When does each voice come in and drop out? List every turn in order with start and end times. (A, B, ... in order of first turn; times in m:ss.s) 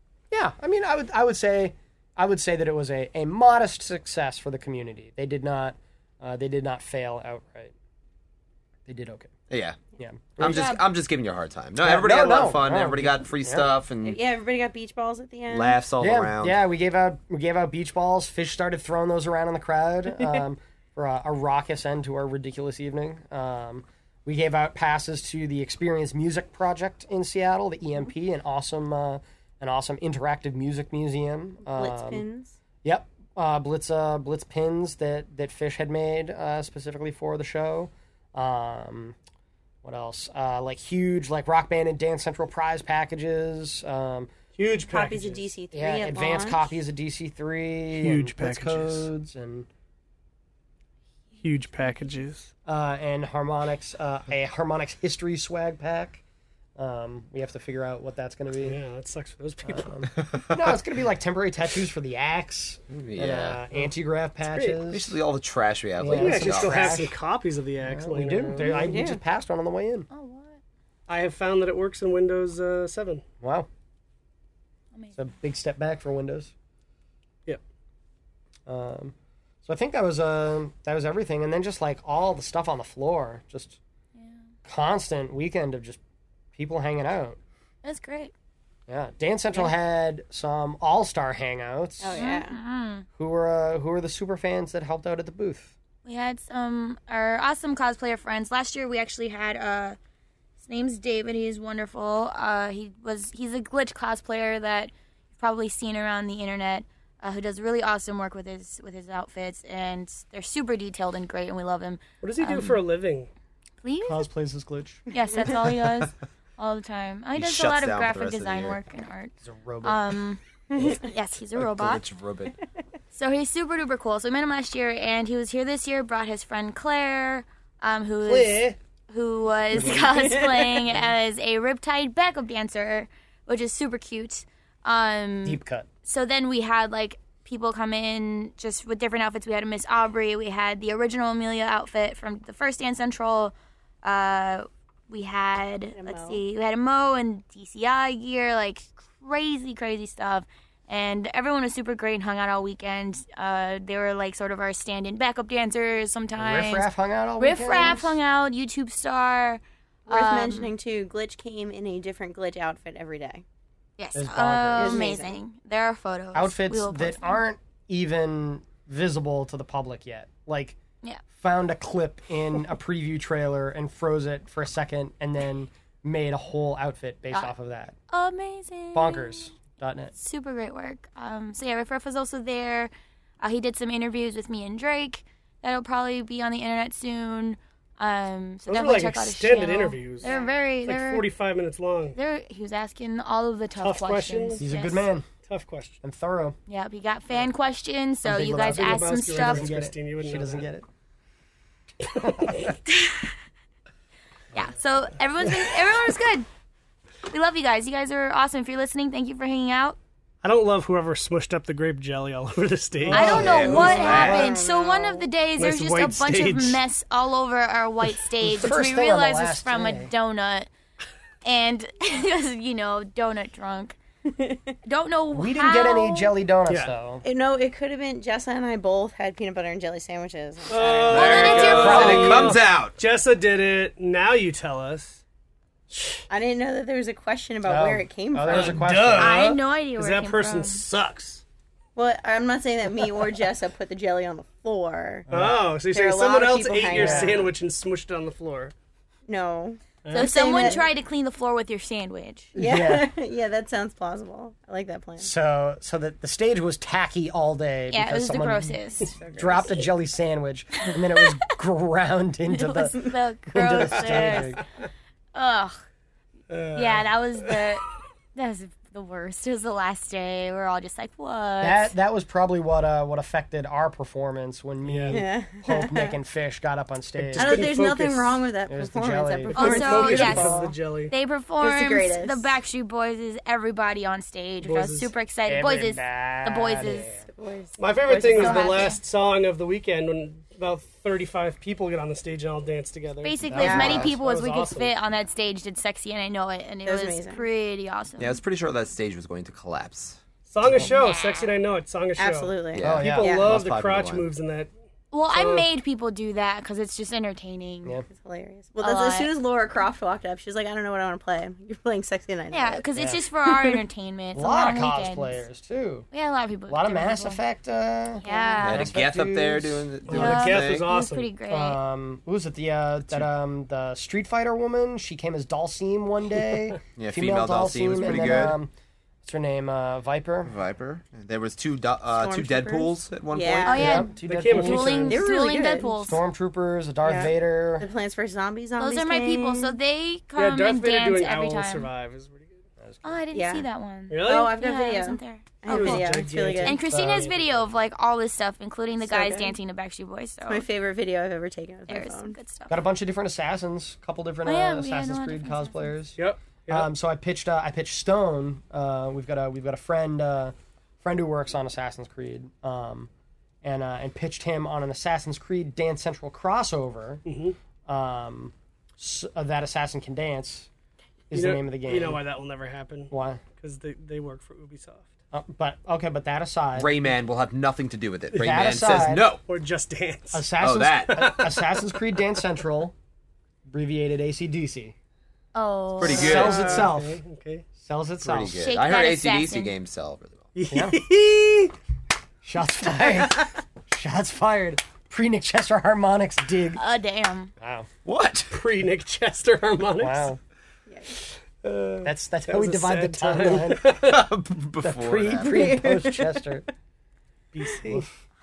0:00.3-0:07.7 A
0:08.9-0:09.4 A
0:09.5-0:09.8 B
0:10.0-0:10.7 A
0:10.4-0:14.2 B
0:10.4-0:10.8 C
0:11.8-0:13.7 A
0:14.0-0:15.8 D
0:15.5-0:16.6 B
0:16.0-0:32.2 A
0:31.8-0:32.6 D
0:32.8-0:39.2 A
0:39.8-0:44.3 A
0:44.6-0:45.5 E
0:44.9-0:46.8 D
0:45.7-0:49.7 A
0:48.0-0:49.1 E
0:51.4-0:52.5 E
0:52.7-0:56.2 A
0:56.8-0:58.8 A
0:58.6-1:00.1 E
0:59.6-1:05.2 A
1:00.2-1:00.7 B
1:02.9-1:03.6 B
1:04.4-1:04.8 E
1:04.9-1:07.0 B
1:06.0-1:07.2 A
1:06.1-1:09.0 E
1:07.8-1:10.1 A
1:08.7-1:09.2 D
1:10.1-1:10.6 C
1:11.1-1:13.2 E
1:13.4-1:13.7 A
1:15.2-1:16.5 A
1:18.7-1:23.8 A
1:24.2-1:24.4 C
1:24.6-1:26.0 A
1:26.6-1:27.4 A
1:27.8-1:28.3 C
1:28.9-1:32.3 A
1:32.0-1:32.6 D
1:32.2-1:33.1 C
1:33.2-1:35.7 A
1:36.0-1:40.0 C
1:40.6-1:52.8 C
1:52.2-1:53.3 E
1:53.8-1:54.3 C
1:54.0-1:55.0 A
1:55.1-2:02.1 C
1:57.4-1:58.8 B
1:59.4-2:00.1 A
2:01.6-2:02.6 B
2:03.1-2:23.5 C
2:08.2-2:08.8 E
2:09.7-2:10.3 A
2:09.8-2:10.9 D
2:15.4-2:15.9 A
2:24.0-2:36.9 C
2:25.9-2:26.4 D
2:36.4-2:38.2 A
2:37.4-2:40.7 C
2:40.1-2:43.4 D
2:44.0-2:47.4 C
2:44.1-2:45.1 A
2:44.8-2:45.4 D
2:46.3-2:50.8 A
2:51.4-2:58.0 A
2:58.1-2:59.5 C
2:58.9-3:00.1 A
3:00.2-3:11.3 C
3:08.7-3:10.3 E
3:10.2-3:10.6 D
3:10.9-3:12.2 E
3:12.2-3:15.1 C
3:13.8-3:14.6 E
3:14.6-3:15.3 A
3:15.4-3:16.0 E
3:16.0-3:16.6 A
3:16.7-3:19.7 C
3:18.2-3:20.9 A
3:18.6-3:20.7 E
3:22.0-3:22.8 E
3:22.2-3:22.7 A
3:22.9-3:23.3 C
3:24.5-3:26.5 C
3:27.3-3:30.0 C
3:30.4-3:33.8 E
3:33.0-3:34.6 A
3:33.1-3:40.7 C
3:33.3-3:34.5 B
3:33.3-3:35.3 D
3:35.6-3:36.8 E
3:38.4-3:40.1 A
3:41.4-3:44.0 C
3:44.3-3:44.7 D
3:44.8-3:46.3 C
3:45.3-3:47.2 A
3:47.2-3:52.3 D
3:50.7-3:55.2 E
3:51.1-3:53.0 B
3:51.1-3:52.4 C
3:51.7-3:52.5 A
3:55.9-3:56.3 E
3:56.3-3:58.8 D
3:57.6-3:59.6 A
3:58.5-4:01.4 E
3:59.2-4:00.8 C
4:02.0-4:05.3 D
4:05.3-4:05.6 A
4:05.3-4:08.7 E
4:05.9-4:07.5 D
4:06.9-4:07.4 A
4:09.3-4:10.9 D
4:10.0-4:10.3 E
4:10.1-4:12.6 C
4:12.6-4:13.1 A
4:12.6-4:15.3 D
4:15.2-4:18.8 A
4:17.9-4:19.2 C
4:19.0-4:19.9 D
4:19.3-4:24.6 A
4:22.5-4:24.6 C
4:23.8-4:24.5 D
4:25.3-4:25.8 C
4:26.5-4:27.6 E
4:26.7-4:31.9 C
4:31.6-4:37.7 A
4:34.8-4:35.2 E
4:35.1-4:36.2 D
4:37.2-4:38.4 E
4:37.4-4:40.5 D
4:38.7-4:40.7 A
4:39.5-4:41.1 E
4:39.5-4:47.2 C
4:41.6-4:42.5 D
4:44.6-4:45.1 E
4:45.5-4:47.3 A
4:47.3-4:49.0 D
4:47.8-4:54.9 E
4:48.4-4:49.0 C
4:53.2-4:58.4 C
4:53.5-4:54.1 A
4:53.6-4:54.1 D
4:56.8-4:57.4 D
4:58.2-5:00.2 B
5:00.5-5:04.7 E
5:00.7-5:01.0 A
5:00.8-5:01.5 C
5:02.2-5:03.6 D
5:02.8-5:04.3 B
5:02.8-5:03.3 A
5:05.1-5:08.0 C
5:05.3-5:05.7 E
5:08.1-5:12.8 D
5:08.8-5:09.3 C
5:12.5-5:15.4 C
5:13.0-5:13.2 A
5:13.5-5:13.8 D
5:14.4-5:16.1 A
5:16.1-5:17.4 C
5:16.7-5:19.9 A
5:18.2-5:18.9 C
5:18.2-5:18.8 D
5:18.6-5:20.9 B
5:20.1-5:21.3 E
5:20.1-5:21.8 C
5:21.5-5:28.7 A
5:27.0-5:28.6 B
5:28.1-5:28.5 C
5:29.2-5:30.6 A
5:30.4-5:33.8 B
5:32.1-5:34.1 D
5:33.6-5:36.2 C
5:33.8-5:35.1 A
5:34.2-5:35.2 E
5:35.1-5:36.0 D
5:36.0-5:37.9 A
5:37.0-5:39.8 D
5:38.8-5:41.9 C
5:40.4-5:42.5 E
5:42.8-5:43.2 A
5:43.0-5:50.7 C
5:43.3-5:43.7 D
5:44.1-5:44.6 E
5:44.2-5:46.8 D
5:45.7-5:46.8 E
5:46.9-5:47.7 A
5:49.0-5:49.6 D
5:50.5-5:52.4 D
5:51.9-5:52.8 C
5:52.7-5:56.2 A
5:54.4-5:55.9 C
5:56.2-5:56.9 E
5:56.7-6:03.1 A
6:03.6-6:07.2 A
6:07.3-6:07.6 E
6:07.9-6:10.7 A
6:11.3-6:12.2 A
6:11.3-6:15.1 E
6:13.1-6:13.4 A
6:15.3-6:16.9 A
6:16.8-6:19.4 B
6:18.4-6:19.3 A
6:19.1-6:22.2 E
6:20.3-6:23.0 A
6:20.6-6:21.2 B
6:23.7-6:25.0 A
6:25.6-6:26.5 C
6:26.0-6:26.9 B
6:26.1-6:27.2 A
6:26.1-6:27.7 E
6:27.8-6:28.6 A
6:28.2-6:30.5 B
6:28.6-6:29.7 C
6:30.6-6:31.7 E
6:30.7-6:31.0 A
6:32.4-6:36.8 A
6:36.8-6:37.5 C
6:37.6-6:37.9 A
6:38.0-6:38.6 B
6:38.5-6:40.3 E
6:40.0-6:40.4 A
6:41.6-6:44.2 E
6:42.0-6:43.9 A
6:43.9-6:45.7 B
6:44.8-6:46.6 A
6:45.4-6:46.4 D
6:47.5-6:48.1 E